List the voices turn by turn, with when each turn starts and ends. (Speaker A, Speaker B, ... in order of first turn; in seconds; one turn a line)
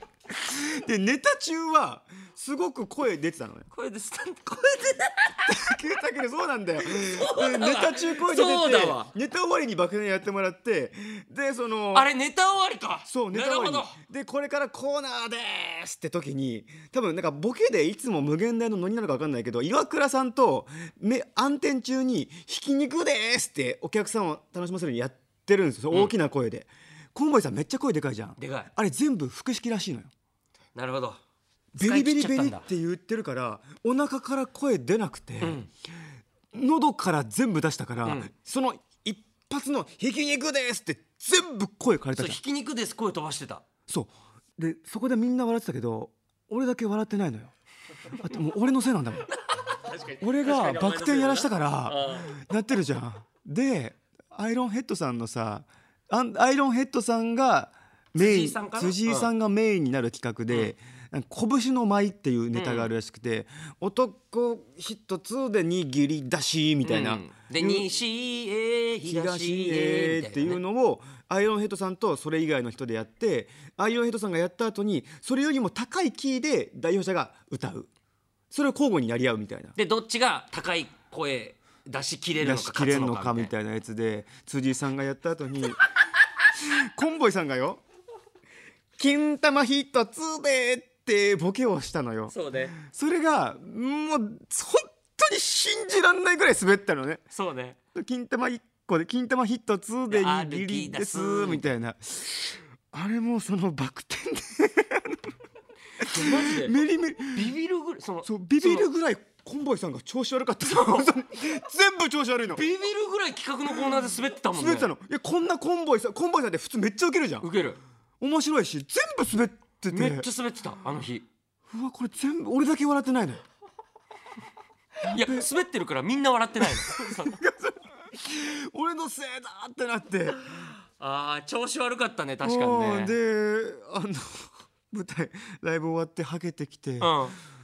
Speaker A: 0.3-3.7
Speaker B: 3.7-5.7
Speaker A: 5.5-12.1
Speaker B: 6.8-9.1
Speaker B: 11.9-14.0
Speaker A: 13.1-30.1
Speaker B: 28.4-28.7
Speaker B: 30.7-31.2
Speaker A: 31.7-35.6
Speaker B: 31.8-32.6
Speaker B: 35.4-35.7
Speaker A: 36.5-42.4
Speaker B: 38.0-38.3
Speaker B: 42.1-43.6
Speaker A: 43.9-47.5
Speaker A: 48.1-49.3
Speaker B: 49.4-52.4
Speaker A: 50.2-67.9
Speaker B: 58.1-59.3
Speaker B: 62.5-62.9
Speaker B: 66.8-70.6
Speaker A: 69.0-77.9
Speaker A: 78.5-79.7
Speaker B: 79.7-83.5
Speaker A: 82.4-85.9
Speaker A: 86.5-87.8
Speaker A: 89.0-97.2
Speaker B: 92.3-92.8
Speaker B: 97.3-97.8
Speaker A: 97.9-105.3
Speaker B: 100.1-101.7
Speaker B: 106.0-106.8
Speaker A: 106.0-107.5
Speaker B: 107.3-108.8
Speaker A: 108.2-112.7
Speaker B: 110.6-111.1
Speaker B: 112.5-114.9
Speaker A: 113.7-117.5
Speaker B: 117.4-117.8
Speaker A: 118.2-120.2
Speaker B: 119.9-121.2
Speaker A: 121.7-123.4
Speaker A: 125.0-125.5
Speaker B: 125.1-127.4
Speaker A: 126.6-130.7
Speaker B: 131.0-133.1
Speaker A: 132.4-137.2
Speaker B: 137.0-137.4